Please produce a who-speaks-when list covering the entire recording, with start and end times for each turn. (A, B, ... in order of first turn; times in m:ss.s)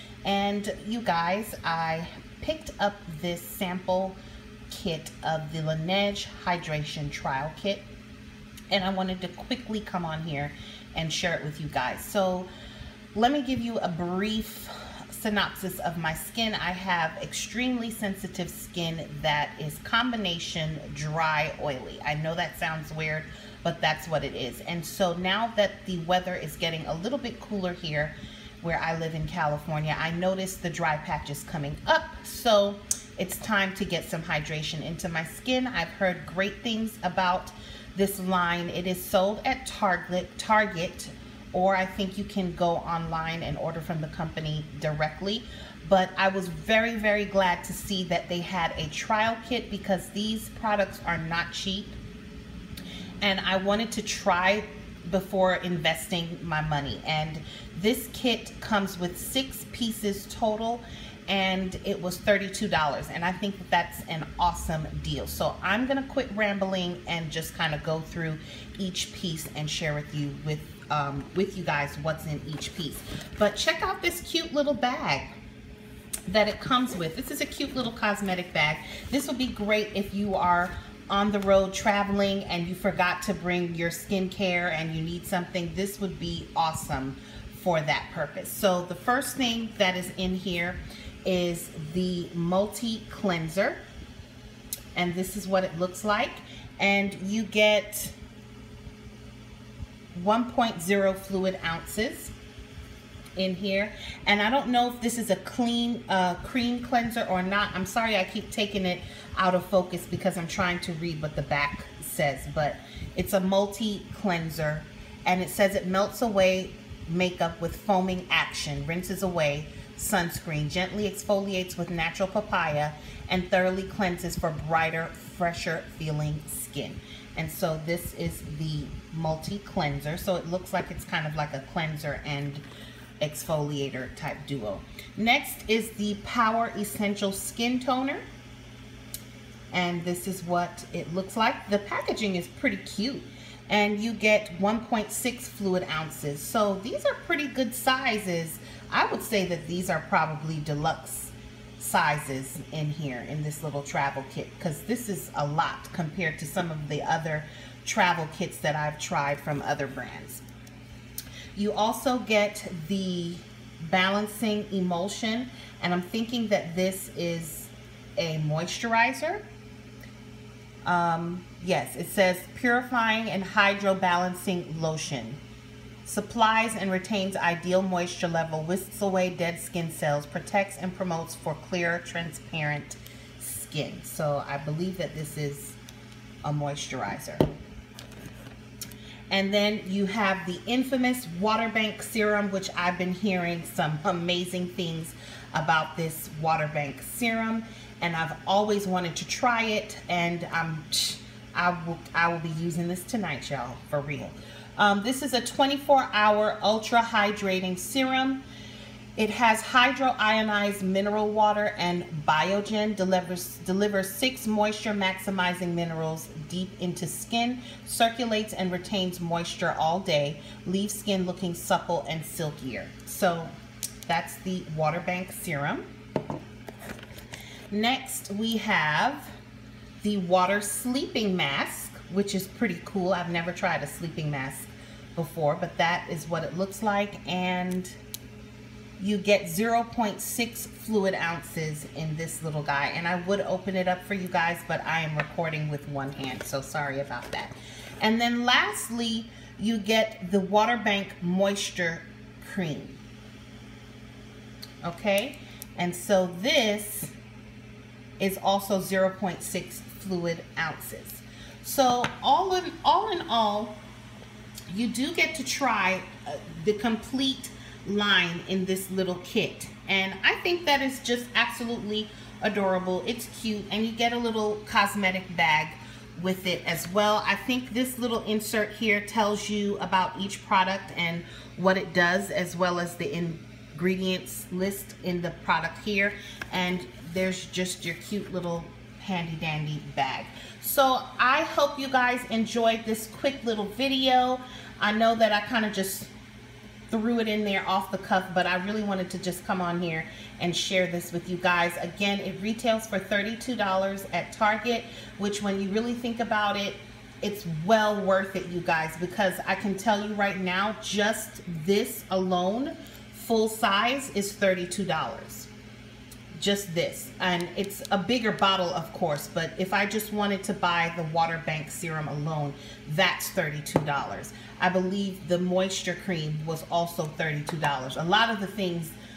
0:00.2-0:04.2 A
0:04.7-0:07.8 A
0:08.7-0:12.5 A
0:13.1-0:52.0 A
0:53.2-1:15.3 A
1:16.3-1:33.8 A
1:34.9-1:38.2 A
1:40.1-1:42.3 A
1:43.4-2:12.6 A
2:13.2-2:18.2 A
2:19.7-2:40.4 A
2:41.5-2:49.4 A
2:50.8-2:55.4 A
2:56.0-3:05.8 A
3:06.4-3:07.5 A
3:09.3-3:28.4 A
3:29.2-3:43.5 A
3:44.1-3:45.8 A
3:47.7-3:49.3 A
3:50.0-3:57.9 A
3:59.0-4:13.0 A
4:14.8-4:17.1 A
4:18.2-4:23.8 A
4:24.7-4:56.1 A
4:56.9-5:15.5 A
5:16.4-5:28.9 A